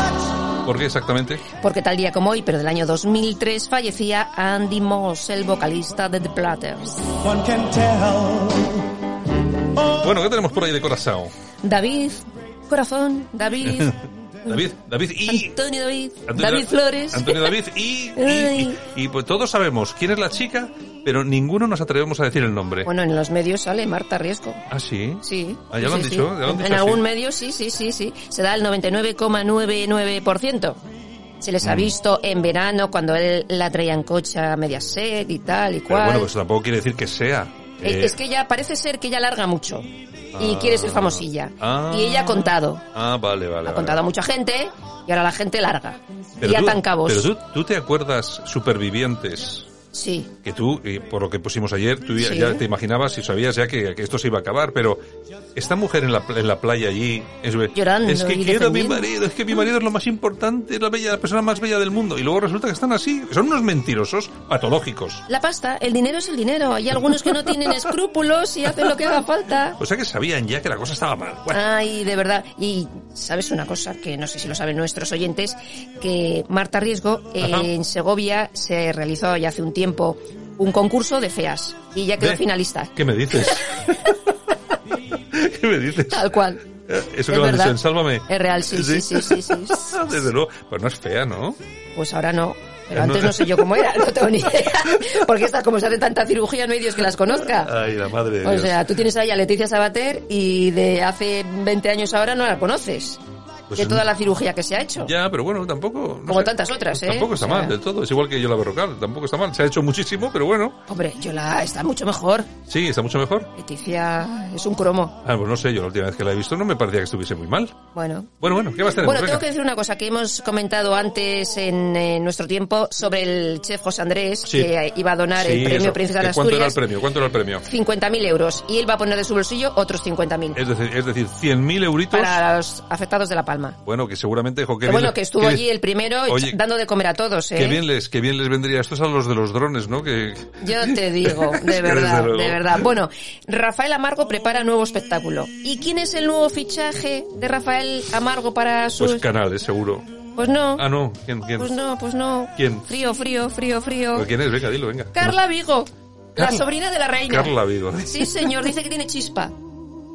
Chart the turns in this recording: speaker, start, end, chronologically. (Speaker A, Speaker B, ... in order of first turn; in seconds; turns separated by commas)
Speaker A: 0.6-1.4, Speaker B: 1.6-8.3, Speaker A: 10.0-11.3, Speaker B: 11.6-13.9, Speaker A: 13.6-13.9, Speaker A: 14.4-15.5, Speaker B: 15.2-17.6, Speaker A: 16.3-22.9, Speaker B: 18.1-18.8, Speaker B: 22.8-24.6, Speaker A: 24.7-27.0, Speaker B: 25.2-30.8, Speaker B: 31.4-36.3, Speaker A: 31.6-31.9, Speaker A: 35.9-38.2, Speaker B: 37.8-42.9, Speaker A: 40.3-44.0, Speaker B: 43.6-47.3, Speaker A: 46.4-49.7, Speaker B: 49.9-50.3, Speaker A: 50.4-55.0, Speaker B: 52.2-52.6, Speaker A: 55.5-65.2, Speaker B: 57.7-59.1, Speaker B: 65.3-69.8, Speaker A: 69.8-71.6, Speaker B: 71.5-83.6, Speaker A: 77.4-77.7, Speaker A: 82.9-84.1, Speaker A: 85.1-86.3, Speaker B: 86.1-86.6, Speaker A: 86.9-91.6, Speaker B: 87.3-90.0, Speaker B: 92.0-97.7, Speaker A: 92.9-93.7, Speaker A: 97.5-99.0, Speaker B: 98.4-103.2, Speaker A: 103.7-104.1, Speaker B: 103.7-105.1, Speaker A: 105.0-110.8, Speaker B: 106.3-107.8, Speaker B: 110.9-112.5, Speaker A: 112.7-113.5, Speaker B: 113.5-115.2, Speaker A: 115.2-117.8, Speaker B: 117.9-118.3, Speaker A: 118.4-119.4, Speaker B: 118.9-126.8, Speaker A: 124.5-124.7, Speaker A: 125.3-127.6, Speaker B: 127.6-130.6, Speaker A: 130.6-132.4, Speaker B: 132.1-133.8, Speaker A: 133.8-135.7, Speaker B: 134.8-137.8, Speaker A: 136.3-136.6, Speaker A: 137.5-142.9, Speaker B: 140.6-149.2, Speaker A: 149.0-150.1, Speaker B: 150.3-150.8, Speaker A: 150.8-151.7, Speaker B: 151.5-154.3, Speaker A: 152.6-152.8, Speaker A: 154.1-155.4, Speaker B: 155.1-159.5, Speaker A: 156.4-156.6, Speaker A: 157.2-158.5